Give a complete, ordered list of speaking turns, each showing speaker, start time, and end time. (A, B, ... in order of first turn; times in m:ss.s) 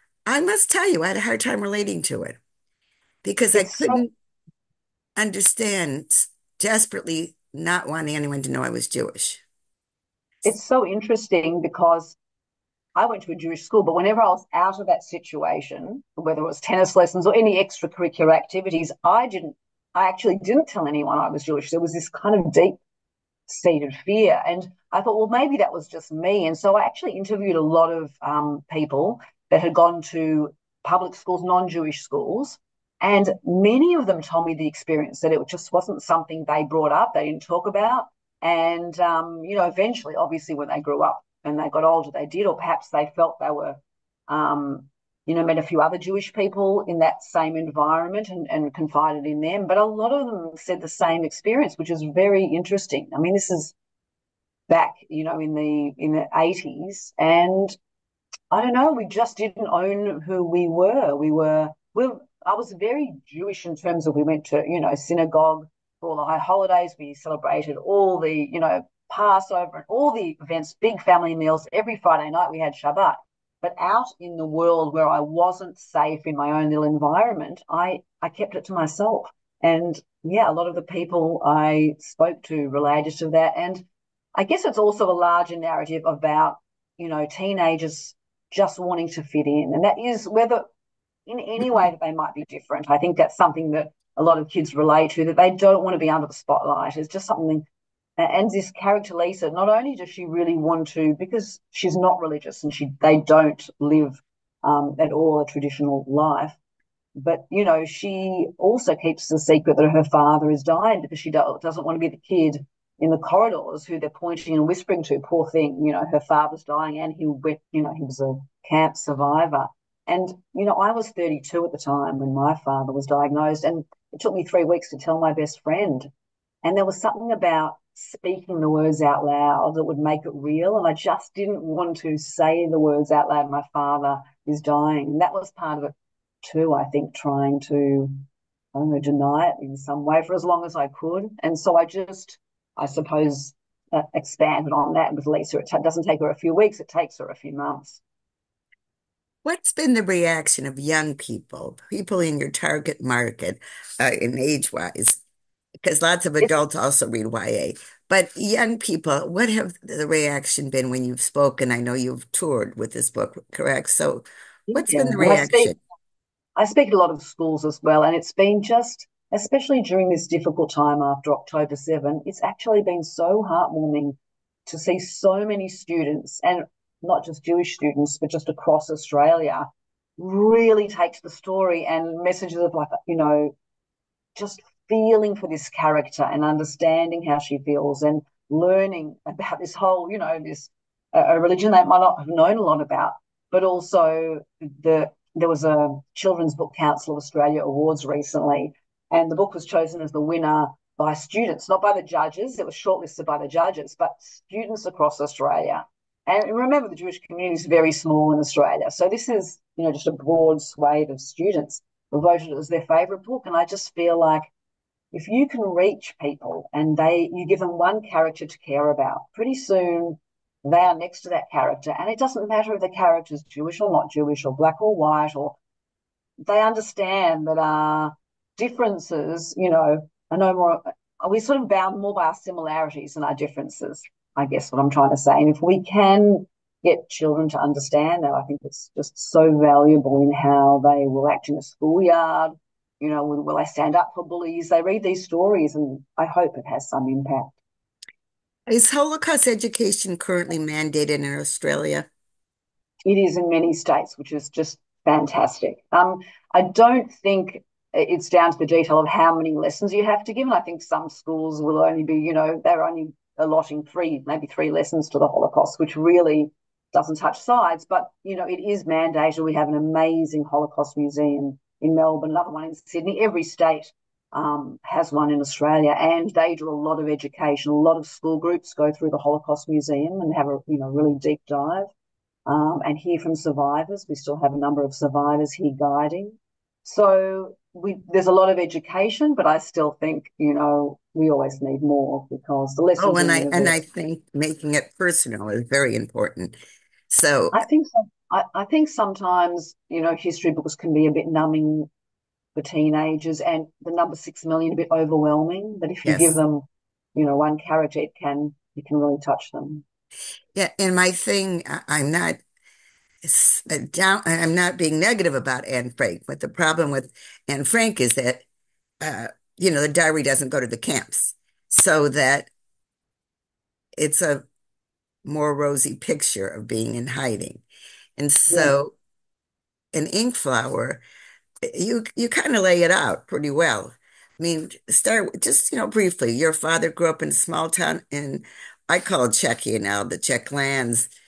0:00.3-0:02.4 A
0:03.2-0:04.1 A
0:03.5-0:04.0 B
0:05.2-0:09.4 A
0:10.4-0:12.2 B
0:13.0-0:22.8 B
0:23.5-0:53.7 B
0:54.7-0:57.8 B
0:58.5-1:23.8 B
1:24.4-1:30.6 B
1:31.3-1:37.7 B
1:38.2-1:46.6 B
1:47.2-2:06.1 B
2:06.6-2:15.9 B
2:16.4-2:18.2 B
2:18.7-2:28.0 B
2:29.4-2:35.2 A
2:35.8-2:45.8 A
2:44.7-2:45.8 B
2:46.6-2:59.7 B
3:00.2-3:03.5 B
3:04.4-3:34.5 B
3:35.1-3:45.6 B
3:46.4-4:07.5 B
4:08.7-4:12.1 A
4:13.0-4:41.9 B
4:42.5-4:53.8 B
4:53.0-4:56.6 A
4:57.1-4:57.6 A
4:57.5-5:01.9 B
5:02.6-5:06.6 B
5:06.0-5:06.4 A
5:07.2-5:09.8 B
5:10.6-5:12.4 A
5:13.2-5:18.4 A
5:19.0-5:22.5 A
5:24.0-5:24.5 A
5:25.2-5:27.6 A
5:28.2-5:28.9 A
5:28.5-5:28.8 B
5:29.9-5:31.0 A
5:31.7-5:41.1 A